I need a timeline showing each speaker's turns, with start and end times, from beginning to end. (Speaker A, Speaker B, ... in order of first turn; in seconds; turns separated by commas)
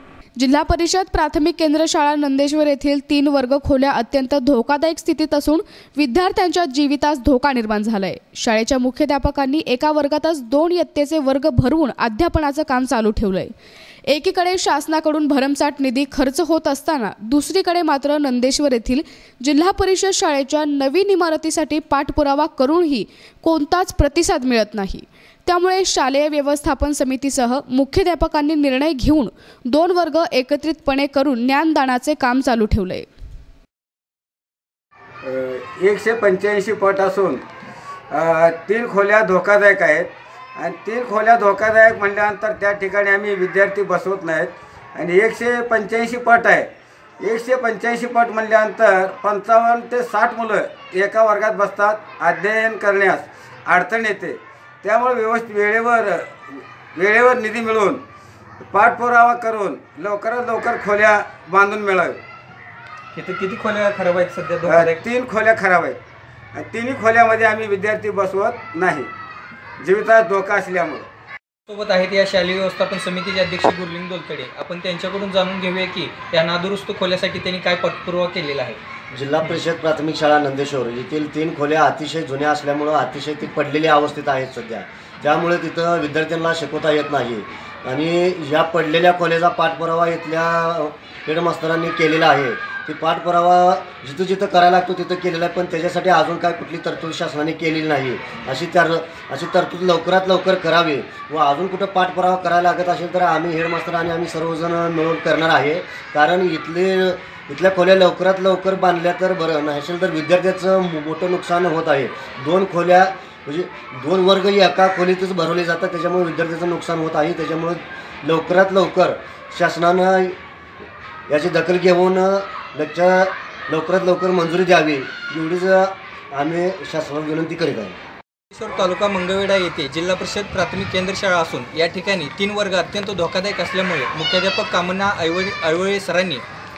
Speaker A: 0.4-13.5, Speaker A: 14.1-33.1, Speaker B: 35.2-37.4, Speaker B: 38.1-46.7, Speaker B: 47.2-58.0, Speaker B: 58.6-62.2, Speaker C: 63.1-65.0, Speaker B: 64.7-66.0, Speaker B: 66.5-69.1, Speaker B: 69.8-71.1, Speaker C: 71.7-78.8, Speaker D: 79.1-120.4, Speaker D: 121.3-128.0, Speaker C: 128.5-136.4